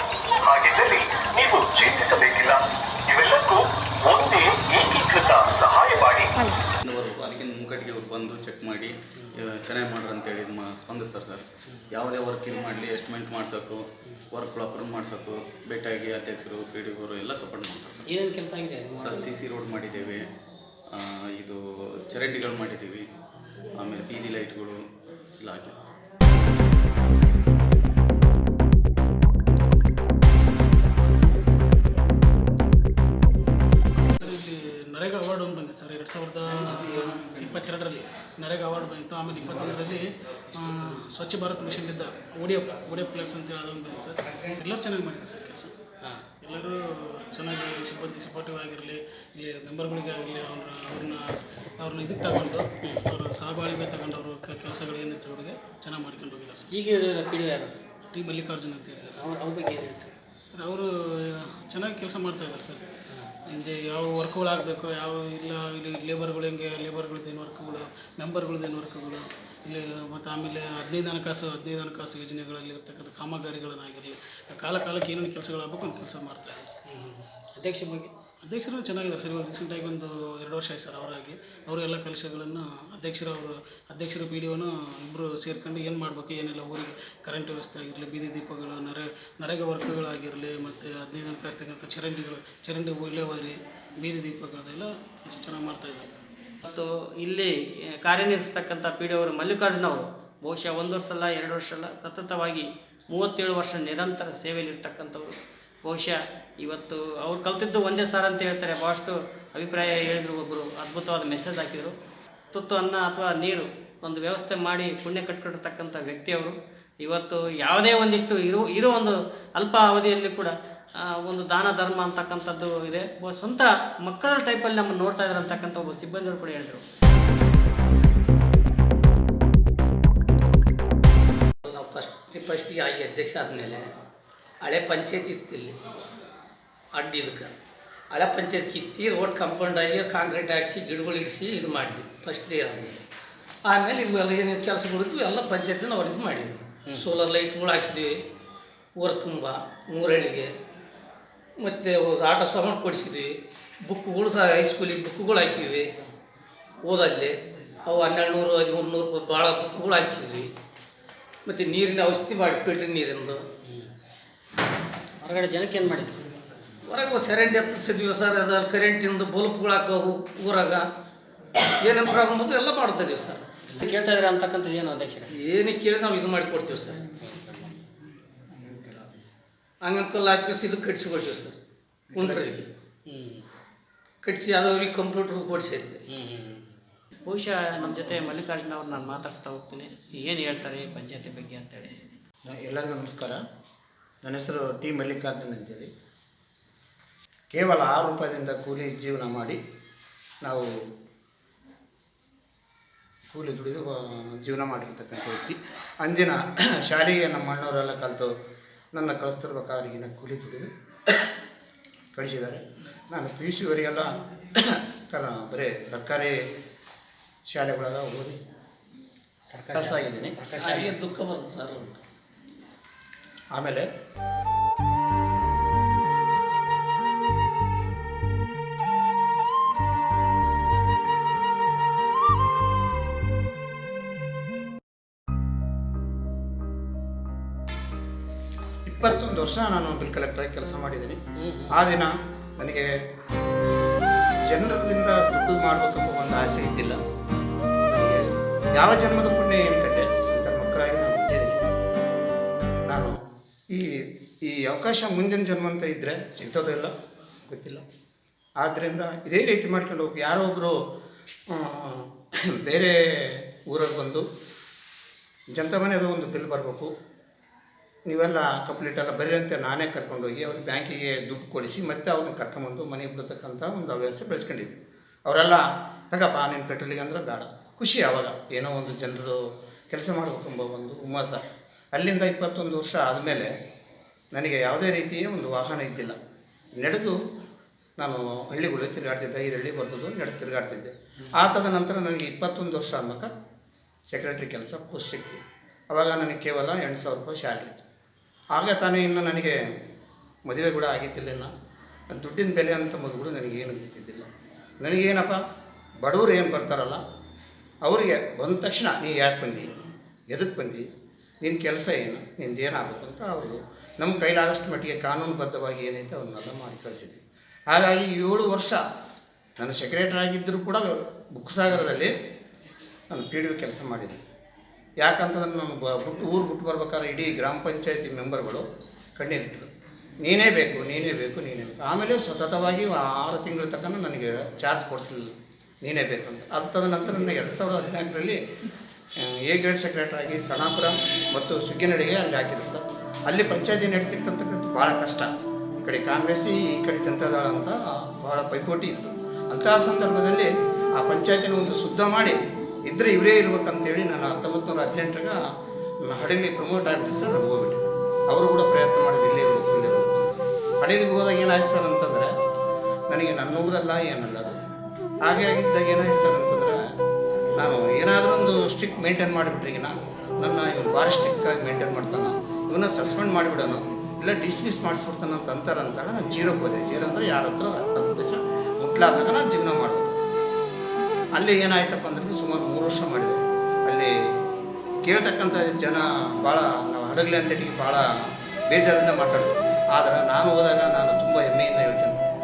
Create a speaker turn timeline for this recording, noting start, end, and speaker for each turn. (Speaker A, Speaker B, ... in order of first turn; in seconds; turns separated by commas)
Speaker A: 0.4-6.3, Speaker B: 7.0-8.2, Speaker B: 9.8-10.3, Speaker B: 12.0-13.5, Speaker B: 14.4-14.7, Speaker B: 17.3-17.6, Speaker C: 18.1-18.9, Speaker B: 19.0-20.1, Speaker B: 22.2-22.9, Speaker B: 23.9-24.2, Speaker D: 34.2-45.8, Speaker D: 46.4-56.8, Speaker C: 56.7-57.8, Speaker D: 58.1-59.3, Speaker C: 59.1-60.1, Speaker D: 60.5-62.8, Speaker D: 63.5-76.7, Speaker C: 76.9-78.1, Speaker D: 78.4-96.2, Speaker C: 96.6-97.5, Speaker C: 98.0-105.3, Speaker C: 105.8-111.9, Speaker C: 112.5-126.8, Speaker E: 131.6-133.9, Speaker E: 134.6-135.7, Speaker E: 136.9-137.5, Speaker E: 138.1-143.0, Speaker E: 143.6-148.2, Speaker E: 148.9-150.5, Speaker E: 151.6-153.3, Speaker E: 153.9-155.9, Speaker E: 156.8-157.3, Speaker E: 157.8-160.5, Speaker E: 161.4-163.4, Speaker C: 165.2-166.2, Speaker E: 166.9-170.8, Speaker E: 171.8-173.4, Speaker C: 173.7-175.3, Speaker E: 175.3-177.0, Speaker C: 177.2-177.6, Speaker F: 178.6-179.2, Speaker E: 179.8-181.6, Speaker E: 182.1-182.7, Speaker F: 182.1-182.5, Speaker C: 183.1-183.4, Speaker E: 184.2-186.0, Speaker C: 186.1-186.6, Speaker C: 187.2-191.9, Speaker F: 192.4-193.4, Speaker F: 194.2-195.9, Speaker F: 197.5-199.6, Speaker F: 203.3-208.3, Speaker F: 208.9-211.1, Speaker F: 212.1-216.3, Speaker F: 217.5-218.4, Speaker C: 219.5-221.0, Speaker F: 219.7-220.4, Speaker E: 220.5-222.0, Speaker F: 223.5-223.9, Speaker F: 238.9-241.2, Speaker C: 241.4-241.7, Speaker F: 241.7-242.9, Speaker F: 244.5-247.0, Speaker F: 247.9-251.6, Speaker F: 254.4-256.9, Speaker F: 257.5-257.8, Speaker F: 258.6-260.7, Speaker F: 261.5-262.0, Speaker F: 262.6-262.9, Speaker F: 263.7-264.2, Speaker F: 265.5-266.9, Speaker F: 268.1-279.4, Speaker F: 279.9-281.4, Speaker F: 281.9-283.5, Speaker F: 284.3-286.1, Speaker F: 286.8-287.1, Speaker F: 288.0-293.3, Speaker F: 294.1-297.8, Speaker F: 298.5-299.5, Speaker F: 300.5-301.5, Speaker F: 302.1-304.3, Speaker F: 304.8-305.4, Speaker F: 306.0-307.0, Speaker F: 307.8-309.7, Speaker F: 310.3-310.8, Speaker F: 311.4-317.2, Speaker F: 317.7-318.8, Speaker F: 319.6-322.1, Speaker F: 323.1-324.2, Speaker F: 325.0-328.6, Speaker F: 329.2-329.7, Speaker F: 330.2-335.2, Speaker F: 335.8-338.4, Speaker F: 339.2-345.3, Speaker F: 345.8-352.4, Speaker F: 352.9-355.4, Speaker F: 356.1-362.3, Speaker F: 363.1-364.6, Speaker F: 365.2-366.8, Speaker F: 367.6-380.1, Speaker F: 381.4-384.1, Speaker F: 385.0-388.0, Speaker F: 388.7-392.2